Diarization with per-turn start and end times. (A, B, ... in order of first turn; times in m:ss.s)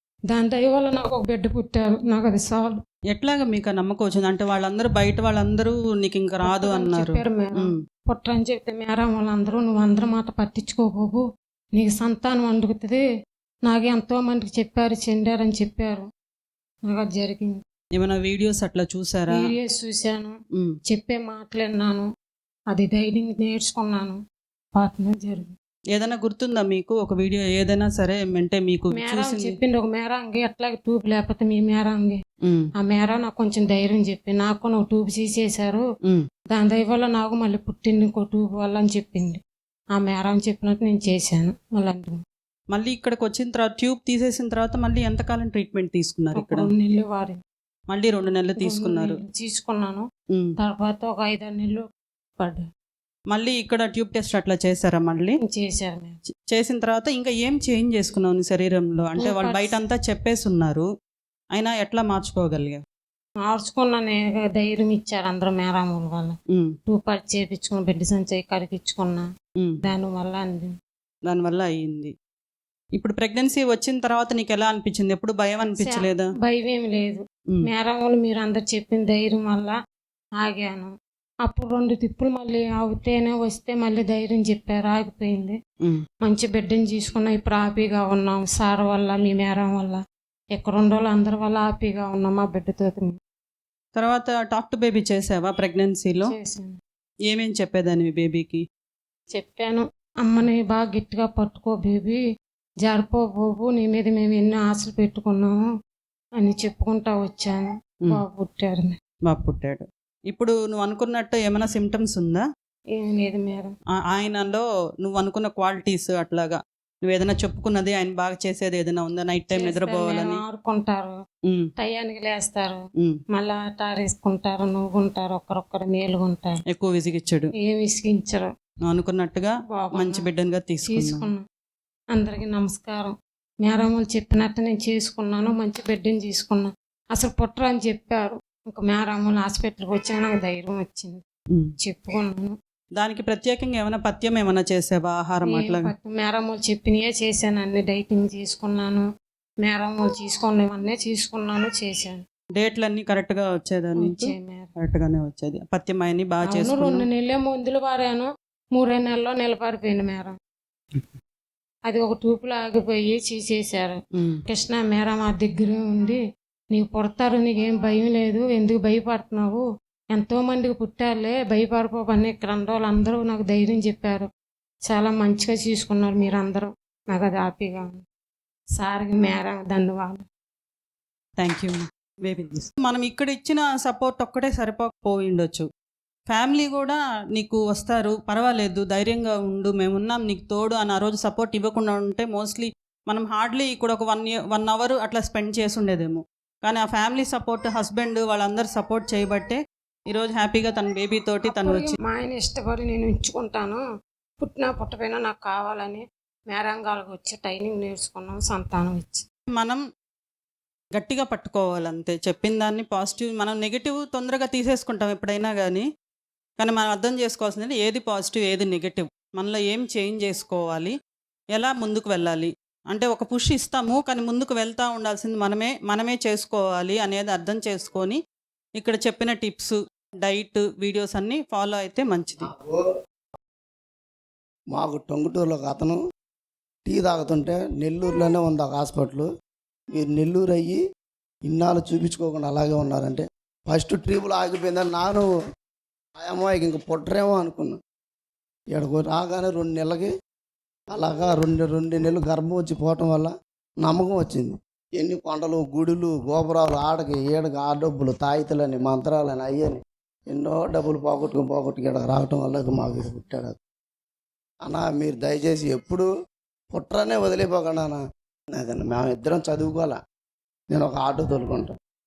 0:00.3-0:02.8 A
0:03.1-0:07.7 B
0:06.4-0:11.2 A
0:11.8-0:13.0 A
0:13.7-0:16.1 A
0:16.9-0:17.6 A
0:18.0-0:19.5 B
0:19.3-0:20.3 A
0:20.9-0:22.1 A
0:22.7-0:24.2 A
0:24.8-0:25.5 A
0:25.9-0:29.6 B
0:28.9-0:32.2 A
0:32.8-0:35.8 A
0:36.5-0:39.4 A
0:39.9-0:42.2 A
0:42.7-0:46.7 B
0:46.3-0:47.4 A
0:47.9-0:49.1 B
0:48.6-0:50.0 A
0:50.6-0:51.8 A
0:53.3-0:55.4 B
0:55.4-0:56.2 A
0:56.5-1:00.9 B
0:59.2-0:59.8 A
1:01.5-1:02.8 B
1:03.4-1:06.4 A
1:06.9-1:09.3 A
1:09.8-1:10.7 A
1:11.3-1:12.1 B
1:13.0-1:16.2 B
1:15.8-1:19.8 A
1:20.4-1:20.9 A
1:21.4-1:25.6 A
1:26.2-1:30.0 A
1:30.5-1:33.2 A
1:34.0-1:36.3 B
1:36.2-1:36.8 A
1:37.3-1:38.6 B
1:39.3-1:42.2 A
1:42.8-1:45.6 A
1:46.4-1:49.0 A
1:49.3-1:52.4 B
1:53.0-1:53.7 A
1:54.1-2:00.4 B
1:59.5-2:01.1 A
2:01.8-2:02.8 A
2:03.3-2:06.6 A
2:06.7-2:07.5 B
2:07.6-2:08.5 A
2:08.9-2:11.3 B
2:09.7-2:10.3 A
2:10.9-2:11.4 A
2:12.1-2:21.2 A
2:21.8-2:22.5 A
2:23.0-2:25.9 B
2:25.5-2:29.0 A
2:29.6-2:32.2 A
2:32.6-2:37.1 B
2:34.0-2:34.7 A
2:36.4-2:40.3 A
2:41.9-2:46.2 A
2:46.7-2:54.3 A
2:54.9-2:58.0 A
2:58.8-3:00.2 A
3:01.4-3:05.7 B
3:06.3-3:19.6 B
3:20.1-3:21.9 B
3:21.4-3:23.8 A
3:24.4-3:29.2 A
3:29.6-3:29.8 B
3:31.0-3:35.8 B
3:36.6-3:40.9 B
3:41.5-3:48.2 B
3:48.8-3:52.5 B
3:52.4-3:52.8 C
3:54.7-3:56.0 C
3:56.9-3:59.3 C
3:59.9-4:00.8 C
4:01.5-4:05.3 C
4:06.2-4:07.8 C
4:08.7-4:10.1 C
4:10.9-4:23.6 C
4:24.6-4:26.1 C
4:26.7-4:28.0 C
4:28.5-4:30.0 C
4:30.7-4:31.8 C